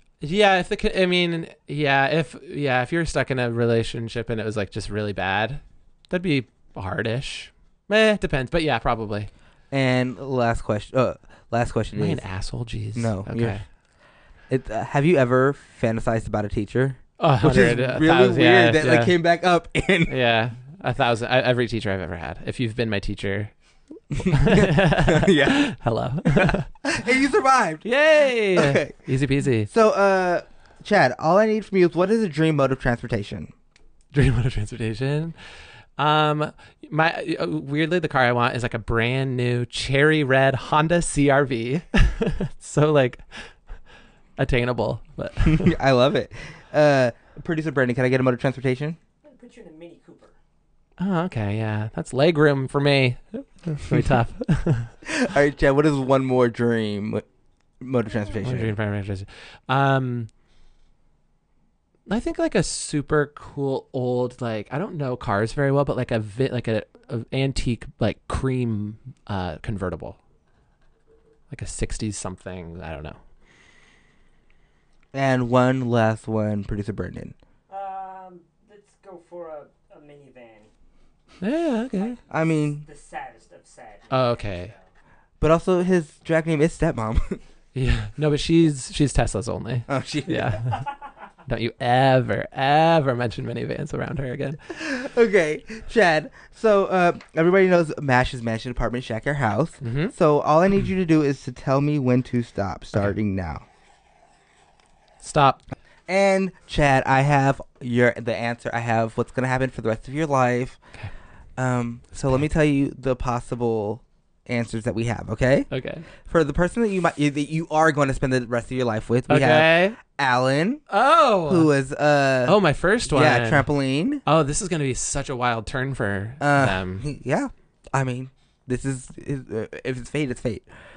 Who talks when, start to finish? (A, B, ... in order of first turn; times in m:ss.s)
0:00.2-0:09.3 A
0:09.7-0:12.2 B
0:12.0-0:13.6 A
0:12.9-0:13.6 B
0:14.5-0:20.1 B
0:17.2-0:19.1 A
0:20.1-0:23.5 A
0:24.2-0:25.8 B
0:24.3-0:26.7 A
0:26.4-0:27.9 B
0:27.8-0:29.7 A
0:28.5-0:29.0 B
0:29.7-0:33.5 B
0:34.1-0:35.4 A
0:36.0-0:43.5 A
0:44.4-0:45.7 A
0:45.4-0:49.0 B
0:49.2-0:50.4 C
0:51.0-0:54.9 A
0:55.1-0:57.2 B
0:57.8-0:58.8 B
0:58.4-1:00.3 A
1:02.1-1:10.2 A
1:11.5-1:13.2 A
1:15.1-1:17.4 B
1:17.7-1:20.7 C
1:21.4-1:22.2 A
1:22.3-1:22.9 B
1:22.8-1:24.8 C
1:24.1-1:24.7 A
1:25.4-1:27.4 B
1:27.8-1:30.9 A
1:29.9-1:30.7 B
1:31.5-1:34.6 A
1:34.7-1:43.6 B
1:39.8-1:40.1 A
1:45.2-1:45.6 A
1:46.1-1:50.8 B
1:51.6-1:55.7 B
1:52.2-1:52.4 A
1:55.7-1:56.1 A
1:56.3-2:00.8 B
1:59.3-2:00.0 A
2:00.9-2:01.7 A
2:01.4-2:04.2 B
2:02.5-2:03.7 A
2:04.3-2:07.0 A
2:06.4-2:10.7 B